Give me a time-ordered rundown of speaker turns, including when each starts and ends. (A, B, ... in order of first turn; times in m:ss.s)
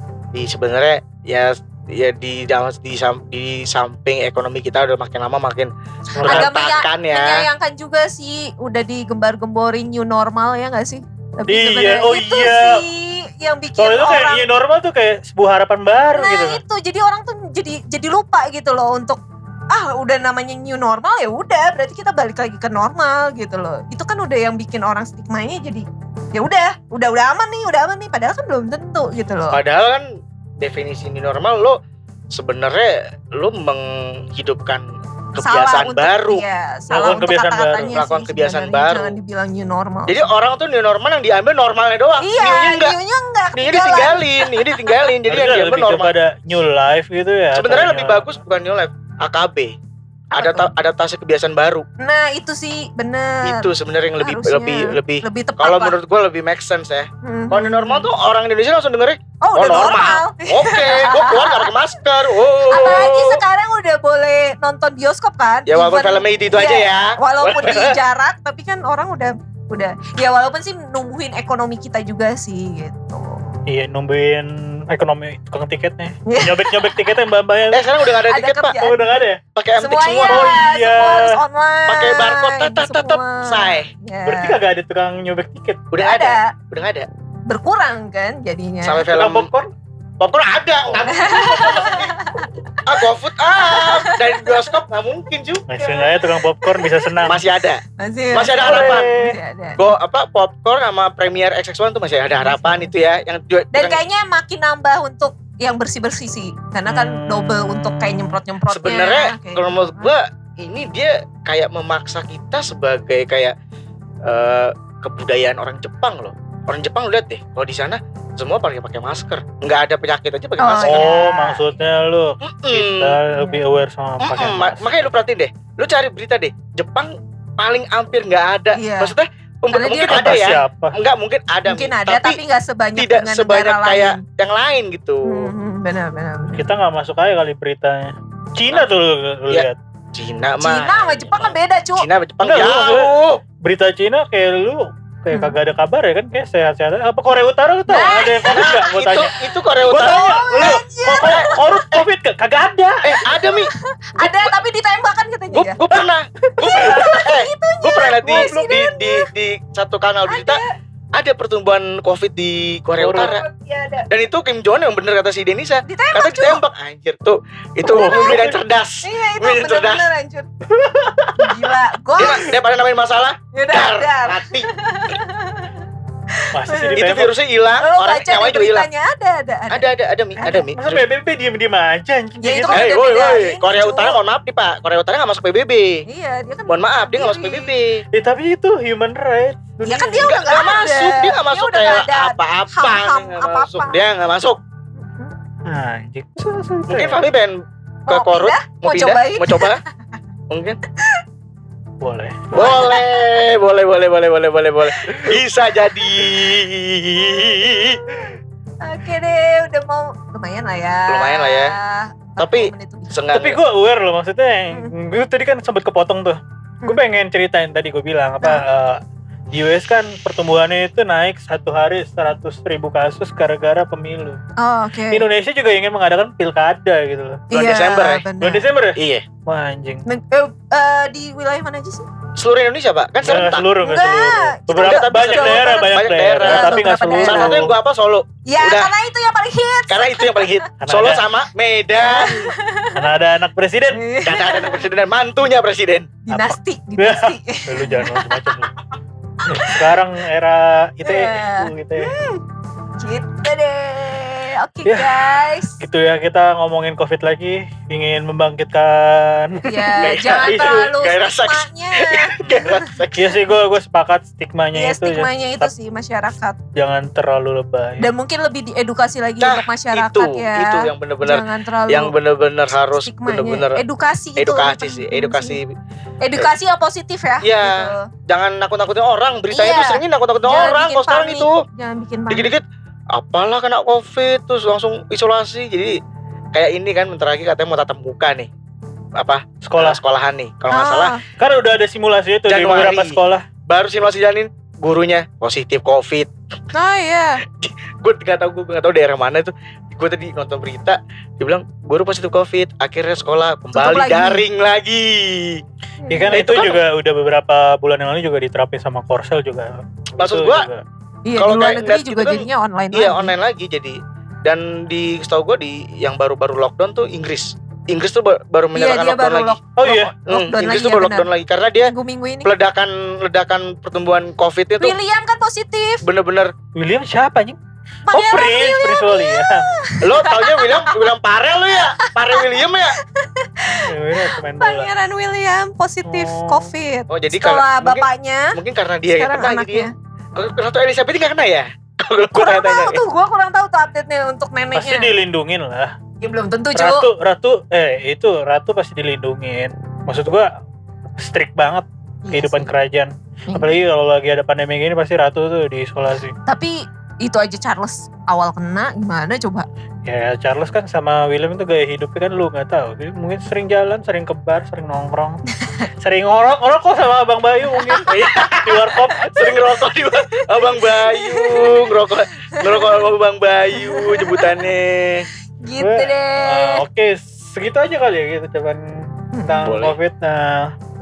0:00.3-0:05.7 A
0:06.1-0:14.5 B
0:06.2-0:06.5 C
0:06.2-0:07.5 A
0:11.5-0:12.8 C
0:13.8-0:16.6 C
0:16.1-0:19.2 B
0:19.7-0:29.6 B
0:29.5-0:30.1 A
0:30.6-0:31.8 A
0:32.3-0:36.4 A
0:35.4-0:40.2 B
0:36.9-0:37.9 C
0:37.9-0:39.2 A
0:40.1-0:42.9 A
0:42.2-0:44.9 B
0:43.5-0:46.1 A
0:45.3-0:48.4 C
0:47.5-0:49.7 A
0:50.3-0:50.7 B
0:50.3-0:51.8 A
0:52.0-0:53.7 B
0:53.4-1:03.4 A
0:54.2-0:55.9 B
0:57.2-0:58.1 B
0:59.4-1:01.7 B
1:02.7-1:13.4 B
1:05.7-1:07.9 A
1:07.6-1:08.0 C
1:13.7-1:17.9 C
1:16.3-1:17.2 B
1:17.7-1:18.8 A
1:18.3-1:19.2 B
1:18.8-1:19.4 C
1:19.5-1:20.5 A
1:19.8-1:24.6 B
1:20.3-1:21.3 C
1:21.9-1:23.9 A
1:24.2-1:25.8 C
1:25.9-1:27.1 A
1:26.0-1:26.5 B
1:27.5-1:29.1 B
1:28.8-1:29.5 A
1:29.1-1:29.7 C
1:30.2-1:32.1 A
1:31.0-1:32.8 B
1:32.8-1:35.6 A
1:33.6-1:34.3 B
1:35.7-1:37.4 C
1:35.8-1:37.2 B
1:37.3-1:39.1 A
1:38.0-1:39.8 B
1:38.6-1:39.3 C
1:39.8-1:44.0 A
1:42.4-1:42.9 B
1:43.7-1:50.1 B
1:46.8-1:48.4 C
1:48.7-1:53.5 A
1:54.2-2:01.1 A
2:00.6-2:01.8 B
2:00.8-2:04.9 C
2:02.4-2:03.2 A
2:03.4-2:03.6 B
2:04.2-2:12.4 A
2:08.8-2:09.1 B
2:09.7-2:10.4 B
2:10.1-2:10.9 C
2:11.7-2:14.2 B
2:13.0-2:15.5 A
2:15.3-2:16.6 B
2:16.6-2:19.8 C
2:19.5-2:23.4 A
2:20.6-2:22.0 B
2:22.4-2:29.3 C
2:27.9-2:28.7 B
2:28.4-2:32.0 A
2:29.8-2:33.2 C
2:30.0-2:31.9 B
2:33.0-2:34.5 A
2:33.3-2:35.8 B
2:35.5-2:40.6 A
2:36.6-2:39.2 B
2:36.6-2:37.2 C
2:38.2-2:38.7 C
2:40.3-2:40.7 B
2:41.1-2:43.4 A
2:43.0-2:43.3 C
2:43.1-2:44.1 B
2:44.1-2:50.0 A
2:45.8-2:46.6 B
2:47.8-2:50.5 B
2:47.9-2:48.6 C
2:50.7-2:51.7 C
2:51.4-2:52.6 B
2:52.2-2:54.7 A
2:53.5-2:55.7 B
2:56.4-2:57.0 B
2:56.5-2:57.3 C
2:56.9-2:58.9 A
2:57.8-3:00.7 B
2:59.7-3:01.0 A
3:00.7-3:03.0 C
3:02.4-3:04.2 B
3:02.7-3:06.0 A
3:06.1-3:07.7 B
3:06.7-3:08.0 A
3:08.1-3:10.3 C
3:09.8-3:14.0 B
3:10.2-3:14.6 A
3:15.0-3:15.3 B
3:15.7-3:17.2 C
3:16.9-3:19.8 A
3:18.1-3:19.8 B
3:20.5-3:20.8 A
3:22.0-3:22.5 C
3:22.5-3:28.0 A
3:22.5-3:23.1 B
3:27.3-3:33.2 B
3:31.1-3:31.7 A
3:32.4-3:33.6 A
3:33.3-3:39.0 C
3:39.5-3:44.4 C
3:44.6-3:45.2 B
3:45.1-3:47.4 C
3:47.5-3:48.2 A
3:47.5-3:48.7 B
3:48.4-3:50.0 C
3:49.0-3:49.2 A
3:50.1-3:52.0 B
3:52.4-3:53.6 A
3:53.2-3:57.7 C
3:53.8-3:57.6 B
3:54.8-3:58.9 A
3:58.5-4:00.6 B
3:59.9-4:02.3 A
4:00.8-4:01.2 C
4:02.0-4:03.0 B
4:02.9-4:04.0 C
4:03.9-4:04.9 B
4:04.2-4:06.1 A
4:06.2-4:08.5 B
4:06.3-4:08.7 C
4:09.5-4:09.9 B
4:09.5-4:12.1 C
4:11.0-4:12.4 B
4:13.0-4:15.8 B
4:14.8-4:15.2 C
4:15.8-4:20.9 C
4:19.6-4:22.9 B
4:20.0-4:23.3 A
4:22.4-4:25.7 C
4:24.7-4:26.6 B
4:26.8-4:28.1 C
4:28.0-4:32.1 B
4:29.4-4:33.8 A
4:32.8-4:35.6 B
4:34.4-4:35.7 A
4:36.2-4:38.1 B
4:37.4-4:41.5 A
4:39.5-4:42.5 B
4:42.3-4:45.9 A
4:46.5-4:48.5 A
4:49.2-4:51.1 A
4:49.6-4:50.0 C
4:50.7-4:51.2 B
4:51.4-4:53.4 C
4:52.5-4:56.3 A
4:56.7-4:57.4 B
4:57.6-5:05.6 A
5:03.7-5:04.4 B
5:06.0-5:06.4 B
5:06.1-5:10.8 C
5:06.3-5:06.8 A
5:10.2-5:10.7 A
5:11.2-5:13.3 B
5:11.4-5:19.6 A
5:18.7-5:21.3 B
5:19.8-5:20.1 C
5:20.3-5:21.9 A
5:21.8-5:22.5 B
5:22.4-5:25.0 A
5:24.8-5:26.0 B
5:26.0-5:26.5 A
5:26.8-5:27.6 C
5:28.1-5:31.0 B
5:28.1-5:29.6 C
5:30.0-5:33.0 A
5:32.0-5:32.6 B
5:33.1-5:38.5 B
5:33.8-5:34.9 C
5:36.0-5:36.7 C
5:37.1-5:43.0 A
5:39.1-5:39.9 B
5:42.3-5:45.1 B
5:44.7-5:45.9 C
5:46.2-5:47.1 B
5:46.7-5:50.5 C
5:51.2-5:56.3 C
5:52.3-5:52.7 B
5:53.5-5:53.8 B
5:56.5-5:59.7 B
6:00.0-6:05.4 C
6:05.5-6:05.9 B
6:06.0-6:09.7 C
6:07.7-6:08.1 B
6:08.1-6:08.8 A
6:09.4-6:15.3 A
6:10.6-6:11.8 B
6:12.6-6:13.0 B
6:13.8-6:14.6 B
6:15.6-6:16.8 B
6:15.8-6:18.8 C
6:19.3-6:19.7 B
6:19.5-6:20.7 C
6:19.6-6:19.9 A